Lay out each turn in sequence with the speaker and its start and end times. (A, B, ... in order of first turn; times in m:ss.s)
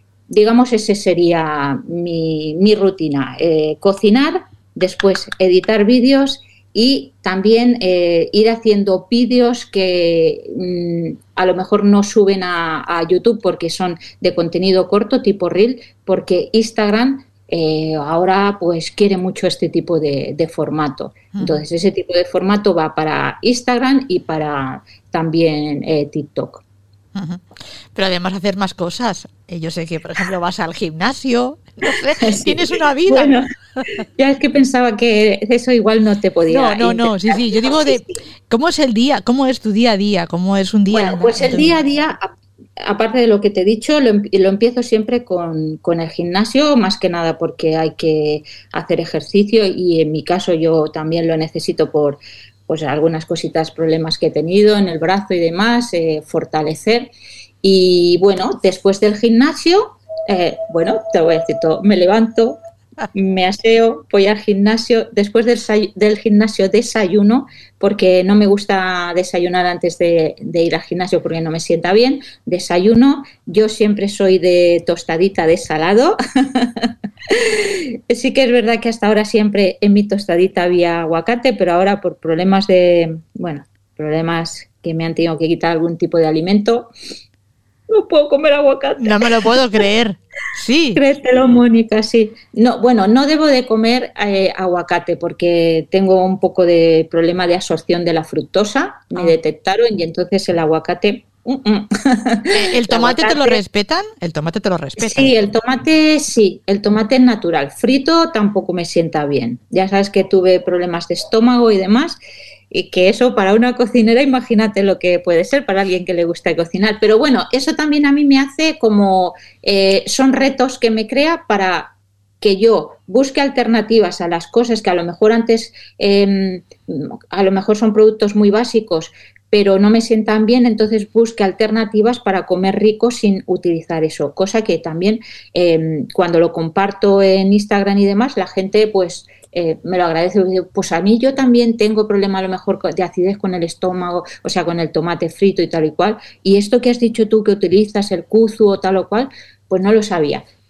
0:00.3-0:26.6 A
0:21.3-0:21.6 B
0:27.1-0:33.4 B
0:32.2-0:33.5 A
0:34.2-0:38.2 A
0:36.5-0:41.8 B
0:40.9-0:42.3 A
0:42.8-0:57.1 A
0:57.6-1:02.6 A
1:03.1-1:26.9 A
1:27.9-1:29.3 A
1:29.0-1:31.0 B
1:31.0-1:43.6 A
1:42.5-1:45.4 B
1:45.0-1:52.2 A
1:52.7-2:30.4 A